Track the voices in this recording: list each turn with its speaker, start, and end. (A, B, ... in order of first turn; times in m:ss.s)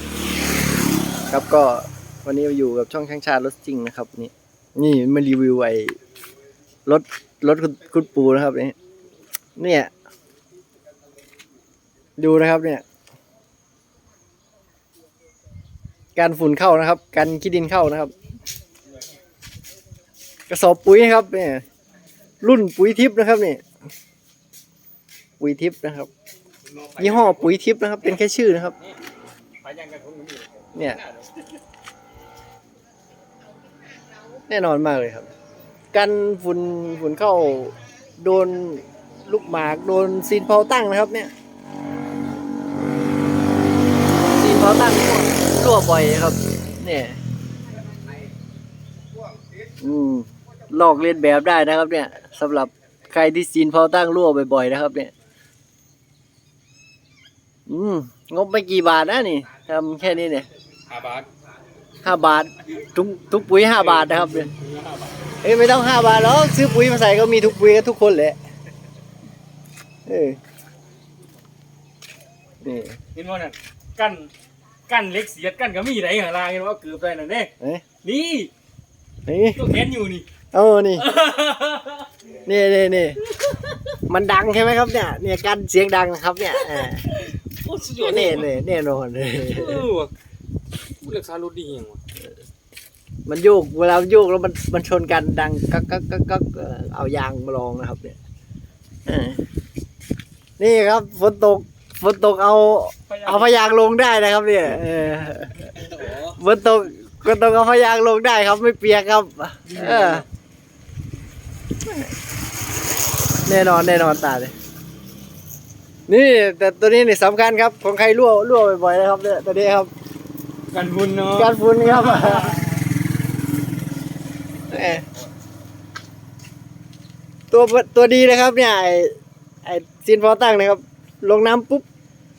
0:01.3-0:06.0 A
0:06.9-0:08.8 A
0:09.6-0:09.9 A
0:12.2-0:12.8 A
0:16.2-0:18.1 A
0:20.5-0:21.6 A
0:22.4-0:23.6 A
0:25.4-0:26.1 A
0:26.6-0:27.6 B
0:27.0-0:28.8 A
0:29.6-0:31.2 B
0:30.8-0:31.0 A
0:34.5-0:35.3 A
0:35.9-0:41.3 A
0:44.3-0:47.2 A
0:49.8-0:55.1 A
0:57.7-1:00.5 A
1:00.9-1:01.3 B
1:02.0-1:04.5 A
1:03.8-1:05.2 B
1:05.4-1:08.4 A
1:10.1-1:10.4 A
1:12.6-1:13.0 A
1:13.2-1:14.3 B
1:14.9-1:17.5 B
1:18.0-1:18.5 B
1:19.3-1:19.6 A
1:19.6-1:20.3 B
1:20.5-1:21.1 A
1:21.0-1:22.1 B
1:22.4-1:23.2 A
1:24.1-1:27.1 A
1:27.1-1:28.5 B
1:28.0-1:29.9 A
1:29.4-1:30.1 B
1:31.0-1:32.0 B
1:33.3-1:38.2 A
1:39.1-1:39.4 A
1:40.6-1:50.2 A
1:43.1-1:43.6 B
1:45.8-1:46.4 B
1:49.7-1:50.2 B
1:51.9-1:52.1 A
1:53.5-1:54.5 A
1:56.1-1:59.9 A
2:00.7-2:02.6 B
2:01.4-2:02.6 A
2:04.7-2:05.0 A
2:07.5-2:09.1 A
2:09.6-2:11.8 A